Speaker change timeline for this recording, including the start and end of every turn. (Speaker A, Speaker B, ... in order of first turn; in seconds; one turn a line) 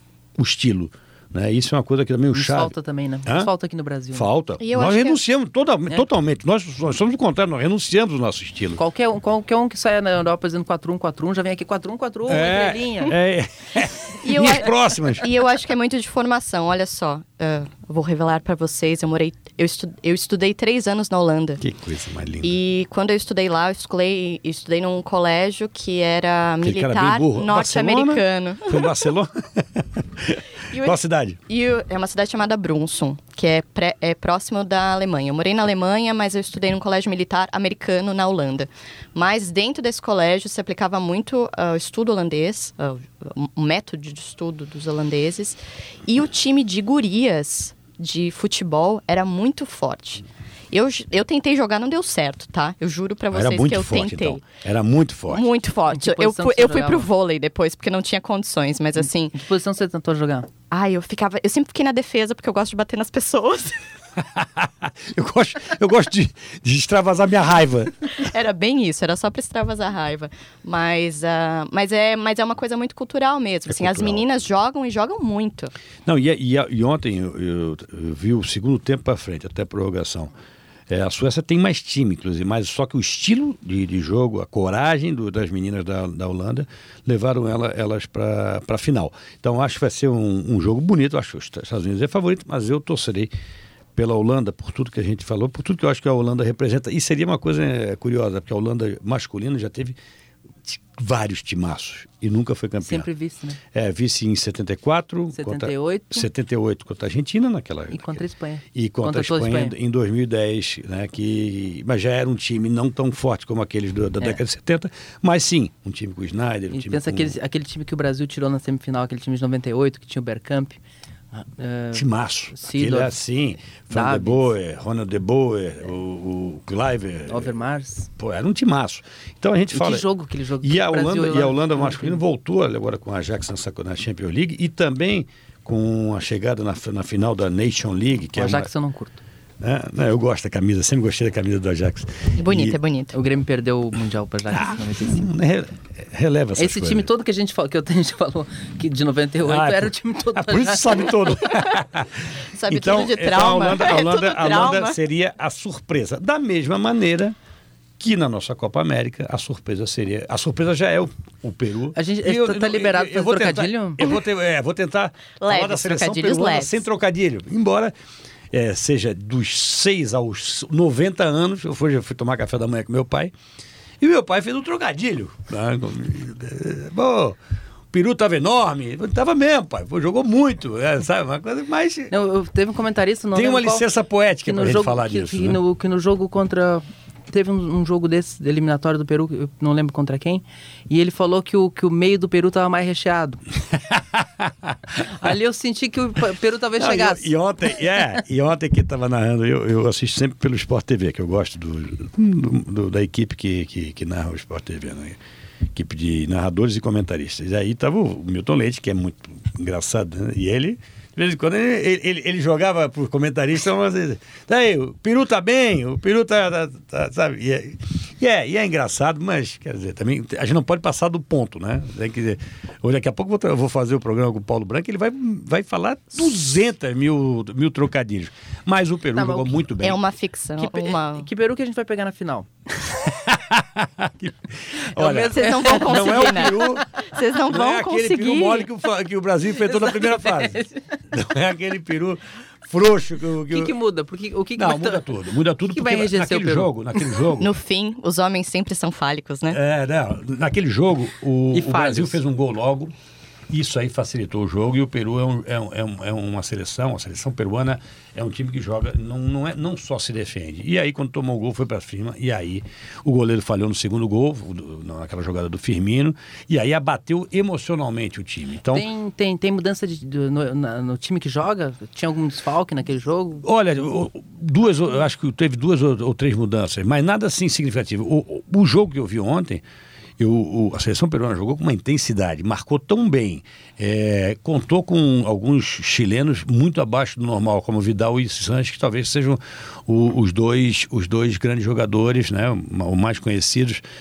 Speaker A: 0.4-2.7
Speaker B: 2.3-4.3
Speaker A: 4.1-8.8
Speaker C: 4.6-5.2
Speaker B: 8.8-13.1
Speaker A: 12.3-15.2
Speaker C: 14.1-21.6
Speaker A: 21.6-22.6
Speaker C: 22.4-28.9
Speaker A: 26.6-31.4
Speaker C: 30.7-30.9
Speaker C: 31.5-54.4
Speaker A: 53.3-55.5
Speaker C: 55.3-59.4
Speaker B: 55.9-57.1
Speaker B: 59.3-60.5
Speaker C: 60.7-63.8
Speaker A: 64.2-68.1
Speaker C: 68.2-75.7
Speaker A: 73.7-74.2
Speaker A: 76.0-80.3
Speaker A: 80.9-93.3
Speaker A: 94.0-100.0
Speaker A: 100.6-103.1
Speaker B: 102.8-103.6
Speaker A: 103.7-108.2
Speaker B: 105.3-106.3
Speaker B: 107.9-109.7
Speaker A: 108.7-117.3
Speaker B: 116.7-120.8
Speaker B: 121.3-123.2
Speaker A: 121.9-127.5
Speaker B: 123.9-124.5
Speaker B: 127.3-128.1
Speaker A: 128.2-130.1
Speaker B: 129.7-132.2
Speaker A: 130.6-138.7
Speaker B: 138.3-139.2
Speaker A: 139.6-142.8
Speaker C: 142.4-143.1
Speaker B: 143.1-145.3
Speaker A: 144.5-147.1
Speaker B: 146.6-151.2
Speaker A: 149.4-157.3
Speaker C: 152.5-155.0
Speaker A: 158.0-167.9
Speaker B: 161.9-164.0
Speaker C: 165.4-166.8
Speaker A: 168.5-173.3
Speaker A: 174.0-177.4
Speaker A: 177.9-182.1
Speaker B: 182.1-183.8
Speaker A: 183.3-185.6
Speaker B: 184.4-193.4
Speaker A: 193.7-194.8
Speaker B: 195.0-197.3
Speaker A: 196.8-205.2
Speaker A: 205.7-230.0
Speaker B: 229.2-229.5
Speaker C: 229.8-231.3
Speaker B: 230.6-232.5
Speaker A: 232.9-243.7
Speaker B: 234.9-236.7
Speaker C: 235.3-238.7
Speaker B: 239.8-241.0
Speaker B: 243.5-245.1
Speaker A: 244.6-247.5
Speaker B: 245.7-247.1
Speaker C: 247.4-249.6
Speaker A: 249.5-252.9
Speaker B: 251.5-252.2
Speaker A: 253.5-268.9
Speaker B: 268.7-273.4
Speaker A: 273.4-279.6
Speaker A: 280.2-293.8